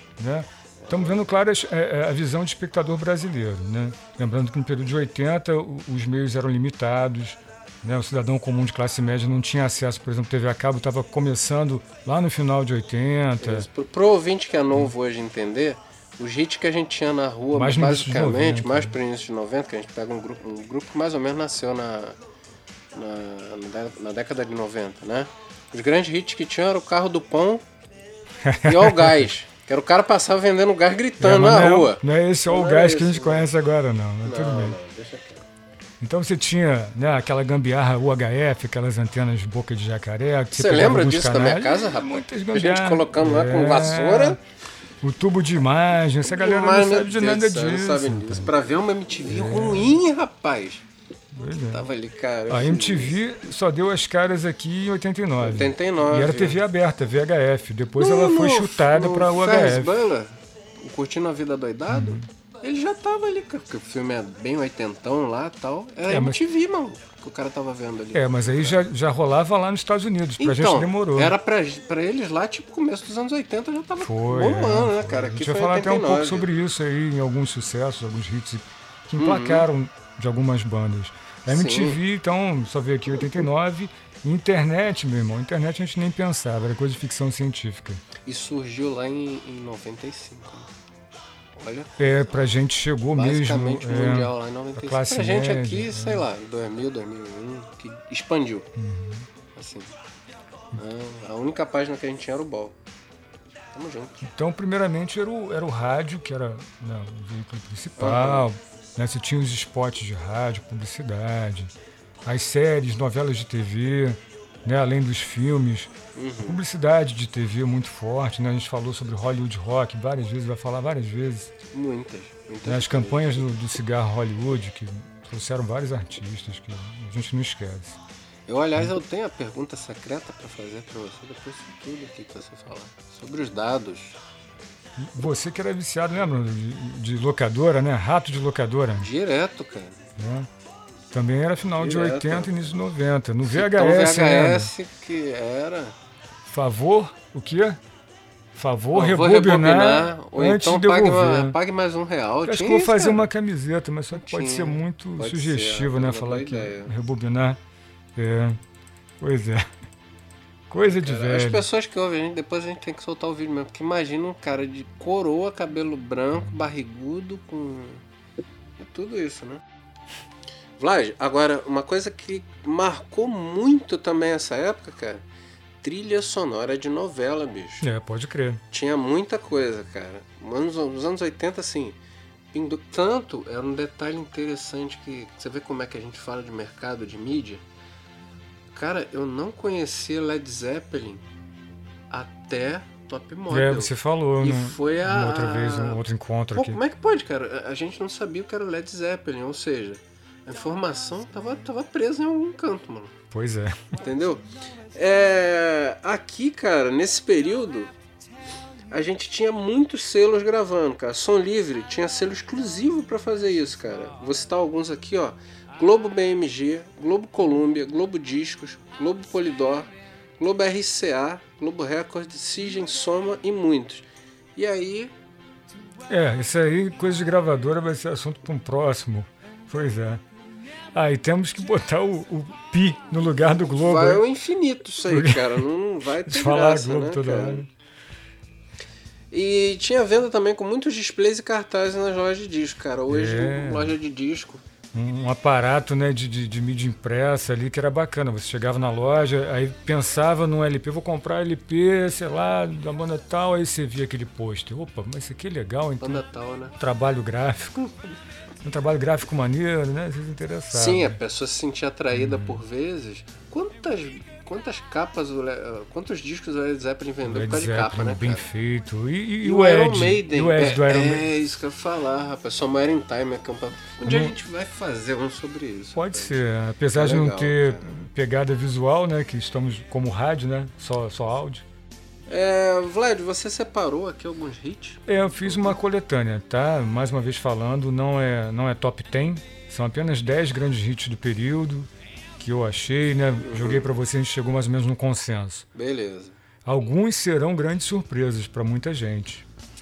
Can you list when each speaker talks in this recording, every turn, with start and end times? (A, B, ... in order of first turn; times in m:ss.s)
0:00.2-0:13.7 A
0:00.8-0:01.2 B
0:13.4-0:22.2 B
0:17.5-0:18.9 A
0:22.9-0:27.6 B
0:28.4-0:29.3 A
0:28.6-0:33.5 B
0:31.2-0:34.8 A
0:34.2-0:35.4 B
0:36.0-0:44.4 A
0:40.5-0:44.4 B
0:45.0-0:48.5 A
0:46.2-0:50.8 B
0:49.2-0:50.0 A
0:51.3-0:51.9 A
0:51.6-0:53.2 B
0:52.5-1:00.0 A
0:55.4-0:56.6 B
0:58.0-1:08.8 B
1:01.9-1:02.3 A
1:06.1-1:06.4 A
1:08.1-1:11.3 A
1:10.4-1:16.5 B
1:14.0-1:28.0 A
1:19.2-1:19.7 B
1:21.4-1:22.0 B
1:28.2-1:30.7 B
1:31.5-1:32.4 B
1:32.0-1:36.2 A
1:33.2-1:38.7 B
1:38.8-1:39.3 A
1:39.5-1:39.9 B
1:40.7-1:42.8 B
1:43.7-1:44.2 B
1:44.2-1:51.7 A
1:48.0-1:48.5 B
1:52.2-2:01.5 A
1:56.1-1:56.6 B
2:01.7-2:03.5 B
2:02.6-2:08.0 A
2:08.5-2:14.2 B
2:15.0-2:19.1 A
2:19.0-2:20.0 B
2:20.2-2:20.5 A
2:21.1-2:24.7 A
2:21.8-2:22.8 B
2:23.4-2:25.9 B
2:26.4-2:27.8 A
2:28.5-2:31.6 A
2:28.9-2:33.3 B
2:32.4-2:37.6 A
2:34.1-2:36.9 B
2:38.2-2:38.6 A
2:39.2-2:39.7 A
2:40.7-2:41.6 A
2:40.8-2:48.0 B
2:48.8-2:49.6 B
2:50.8-2:55.2 B
2:55.8-2:57.9 B
2:57.8-2:58.6 A
2:58.7-3:02.0 B
3:02.5-3:07.6 B
3:08.7-3:11.2 B
3:12.1-3:16.0 B
3:13.5-3:16.8 A
3:16.5-3:23.1 B
3:23.3-3:23.9 A
3:23.9-3:27.9 B
3:28.9-3:45.1 B
3:46.1-3:50.2 A
3:50.9-3:54.2 A
3:53.7-3:57.6 B
3:55.1-3:57.7 A
3:59.3-4:04.6 B
4:03.1-4:04.0 A
4:04.9-4:16.2 A
4:16.0-4:16.8 B
4:16.7-4:17.9 A
4:18.6-4:21.2 A
4:20.7-4:28.5 B
4:22.1-4:22.6 A
4:27.2-4:31.3 A
4:29.4-4:36.4 B
4:34.0-4:34.3 A
4:35.9-4:41.6 A
4:36.9-4:38.0 B
4:42.3-4:45.8 B
4:45.1-4:55.7 A
4:53.4-4:53.9 B
4:55.7-4:56.4 B
4:56.6-4:59.4 A